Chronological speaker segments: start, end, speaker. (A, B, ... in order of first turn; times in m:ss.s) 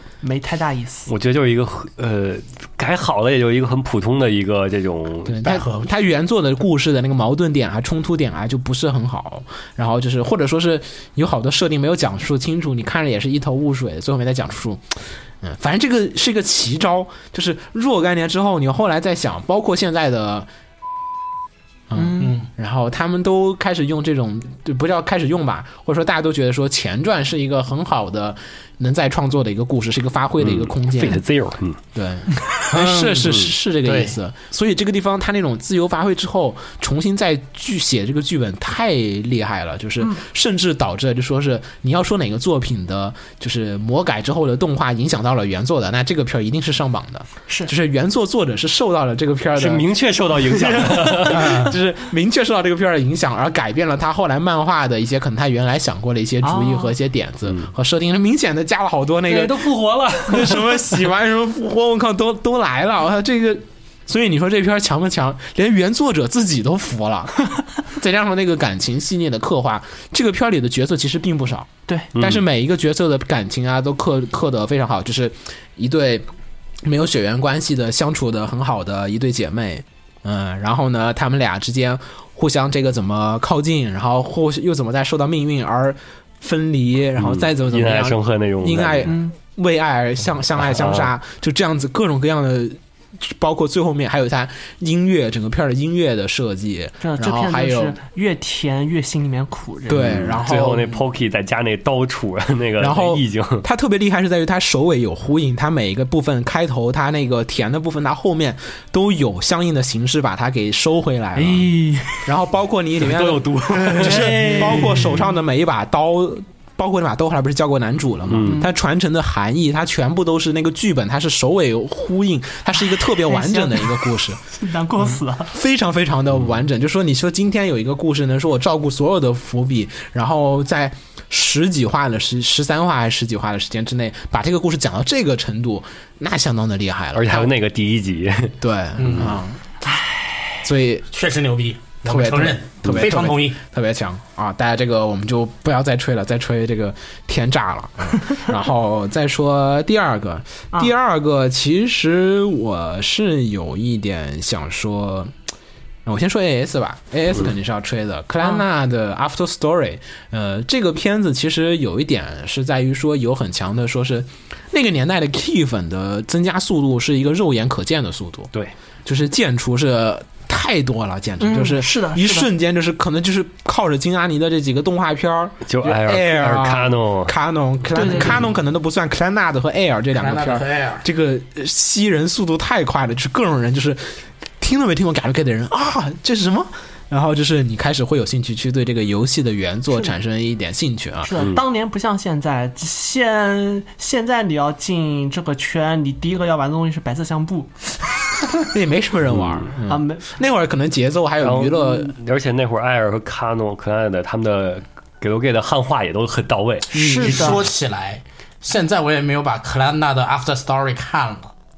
0:00.2-0:01.1 A
0:01.1-0:05.4 B
0:05.3-0:20.5 C
0:05.4-0:06.0 D
0:21.9-0:31.2 C
0:22.0-0:22.4 A
0:22.2-0:22.4 D
0:30.4-0:31.8 B
0:31.9-0:49.8 C
0:32.7-0:34.1 D
0:49.6-0:51.7 B
0:50.4-0:59.7 C
0:51.3-0:51.7 D
0:56.4-0:56.9 A
0:59.3-1:00.9 B
1:00.2-1:16.2 C
1:12.1-1:12.4 B
1:16.8-1:38.0 C
1:27.2-1:29.1 B
1:29.0-1:29.3 A
1:30.6-1:31.1 B
1:37.0-1:40.4 A
1:39.9-1:41.0 C
1:39.9-1:43.6 B
1:42.8-1:51.7 C
1:51.4-1:52.3 A
1:52.2-2:04.4 C
1:53.0-1:55.0 B
1:54.0-1:55.2 A
1:58.3-1:58.6 B
1:58.4-1:58.7 A
2:03.0-2:05.5 A
2:05.5-2:17.5 C
2:17.1-2:18.6 B
2:18.6-2:19.6 C
2:19.0-2:19.4 D
2:20.6-2:21.1 C
2:21.1-2:23.6 D
2:22.0-2:35.3 C
2:36.0-2:48.5 C
2:49.0-3:11.4 C
2:51.4-2:52.5 A
2:55.7-2:57.3 B
2:57.9-2:58.4 A
3:00.1-3:01.0 D
3:11.2-3:17.8 A
3:18.7-3:22.1 C
3:19.8-3:20.3 A
3:21.4-3:26.9 B
3:26.9-3:27.6 A
3:26.9-3:27.5 C
3:27.0-3:31.5 D